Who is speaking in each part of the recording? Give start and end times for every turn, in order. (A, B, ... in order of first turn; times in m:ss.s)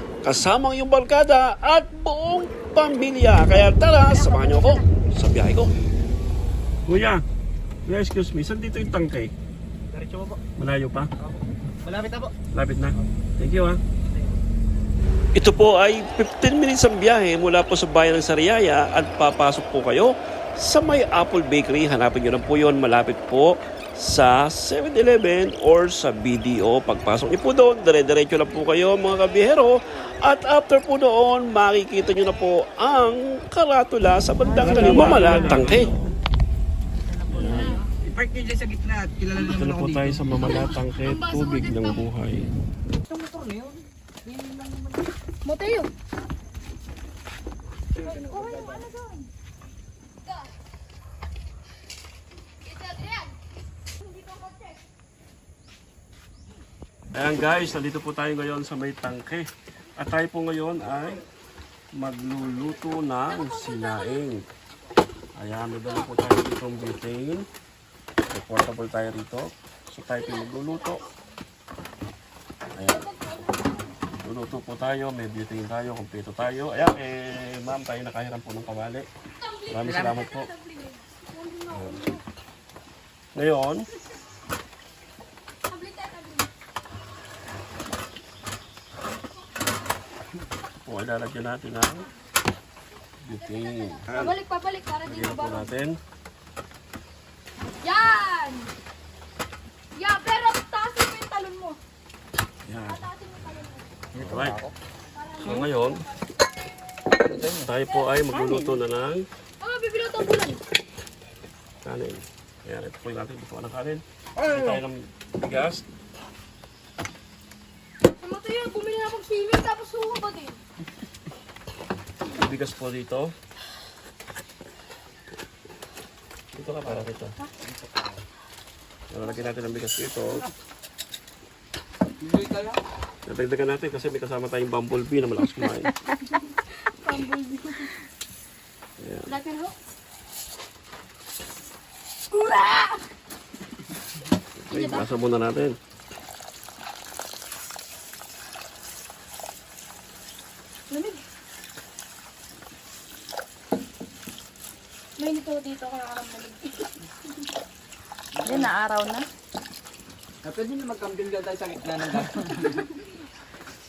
0:00.2-0:05.7 A
0:04.0-0:04.8 B
0:06.9-0:07.2 A
0:07.9-0:09.3 A
0:09.9-0:10.4 C
0:10.6-0:11.1 A
0:11.8-0:12.3 C
0:12.5-0:13.8 A
0:15.4-0:36.1 A
0:34.4-0:35.8 D
0:34.6-0:35.9 C
0:37.1-0:40.7 C
0:37.3-0:37.8 A
0:39.4-0:42.5 A
0:40.5-0:42.0 B
0:43.1-0:45.0 C
0:45.4-0:45.9 B
0:48.0-0:49.3 B
0:52.7-0:53.3 B
0:57.1-1:01.2 A
1:01.9-1:04.5 A
1:05.4-1:07.5 A
1:08.3-1:11.0 A
1:12.8-1:13.1 A
1:13.1-1:13.9 B
1:14.2-1:19.1 A
1:19.5-1:22.2 B
1:19.7-1:20.5 A
1:19.8-1:20.2 D
1:21.7-1:22.1 A
1:23.4-1:23.9 A
1:25.7-1:26.5 B
1:30.8-1:32.1 A
1:33.2-1:34.4 A
1:33.5-1:35.7 B
1:35.0-1:36.0 A
1:37.8-1:38.7 B
1:40.0-1:41.8 B
1:42.7-1:43.1 A
1:42.9-1:43.9 B
1:44.1-1:44.7 C
1:44.2-1:44.6 A
1:45.2-1:46.1 B
1:45.4-1:46.0 A
1:47.1-1:47.7 C
1:47.6-1:49.3 A
1:48.3-1:48.8 D
1:49.6-1:50.6 B
1:51.8-1:55.8 A
1:54.4-1:54.8 C
1:58.2-2:00.6 B
2:02.3-2:03.3 A
2:06.5-2:07.4 A
2:06.8-2:07.1 C
2:07.6-2:08.2 C
2:09.1-2:10.5 A
2:12.2-2:12.8 C
2:13.3-2:15.9 A
2:16.9-2:17.9 B
2:19.0-2:19.4 A
2:19.3-2:19.8 B
2:22.3-2:23.0 B
2:24.6-2:25.8 A
2:24.7-2:25.1 B
2:30.9-2:31.2 B
2:35.2-2:37.1 B
2:38.4-2:38.7 C
2:38.4-2:39.2 D
2:40.4-2:42.9 C